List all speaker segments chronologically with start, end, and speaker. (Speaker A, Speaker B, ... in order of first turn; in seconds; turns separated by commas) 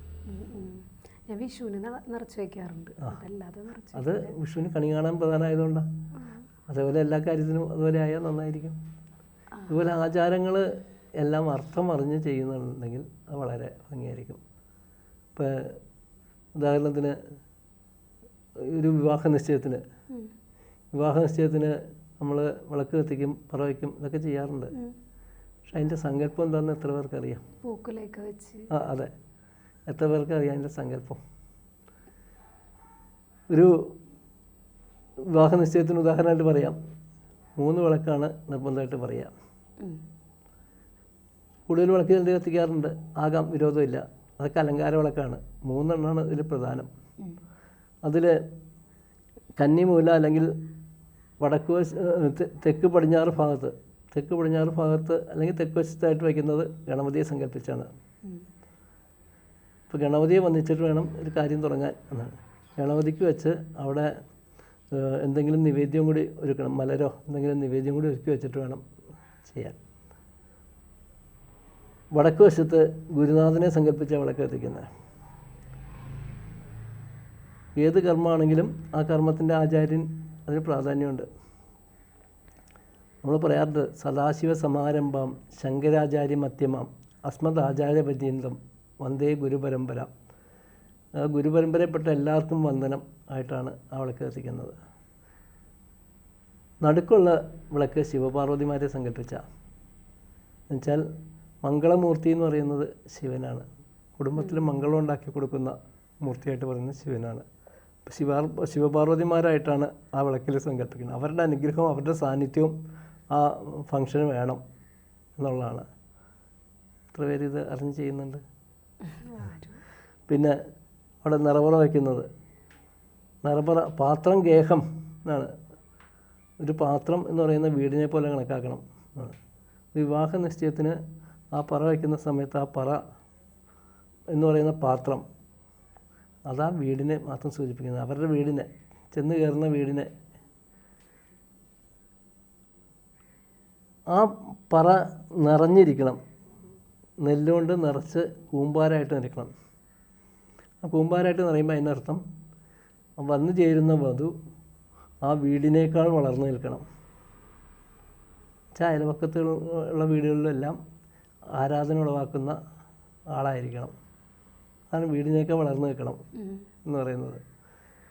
Speaker A: 0.3-4.4, Speaker B: 3.9-5.9, Speaker A: 6.2-6.5, Speaker B: 6.7-8.8, Speaker B: 9.7-10.7, Speaker B: 11.2-14.4, Speaker B: 15.3-15.8, Speaker B: 16.6-17.1, Speaker B: 18.6-19.8, Speaker B: 20.9-24.7, Speaker B: 25.7-27.4, Speaker A: 27.6-28.7, Speaker B: 28.7-29.1, Speaker B: 29.9-31.2, Speaker B: 33.5-33.9, Speaker B: 35.3-36.8, Speaker B: 37.6-39.3, Speaker B: 41.7-46.9, Speaker B: 48.1-48.4, Speaker B: 49.6-50.5, Speaker B: 51.4-57.9, Speaker B: 59.9-64.1, Speaker B: 64.9-68.8, Speaker B: 69.4-69.8, Speaker B: 72.1-74.9, Speaker B: 77.8-81.3, Speaker B: 83.2-90.1, Speaker B: 91.2-94.8, Speaker B: 96.8-99.4, Speaker B: 100.7-101.0, Speaker B: 101.6-103.7, Speaker B: 104.2-107.5, Speaker A: 104.4-104.7, Speaker B: 108.1-112.7, Speaker B: 113.3-114.6, Speaker B: 115.4-115.9, Speaker B: 117.1-118.4, Speaker A: 119.1-119.8, Speaker B: 120.3-120.6, Speaker B: 121.2-122.3, Speaker B: 123.5-125.5, Speaker B: 126.6-129.4, Speaker B: 129.9-131.0, Speaker B: 131.5-133.0, Speaker B: 134.3-135.2, Speaker B: 136.5-140.1, Speaker B: 144.1-146.2, Speaker B: 147.2-149.5, Speaker B: 150.8-152.2, Speaker B: 153.2-154.3, Speaker B: 155.2-156.8, Speaker B: 158.8-160.8, Speaker B: 161.6-162.6, Speaker B: 163.3-163.9, Speaker B: 164.9-166.2, Speaker A: 166.4-166.7, Speaker B: 166.9-167.4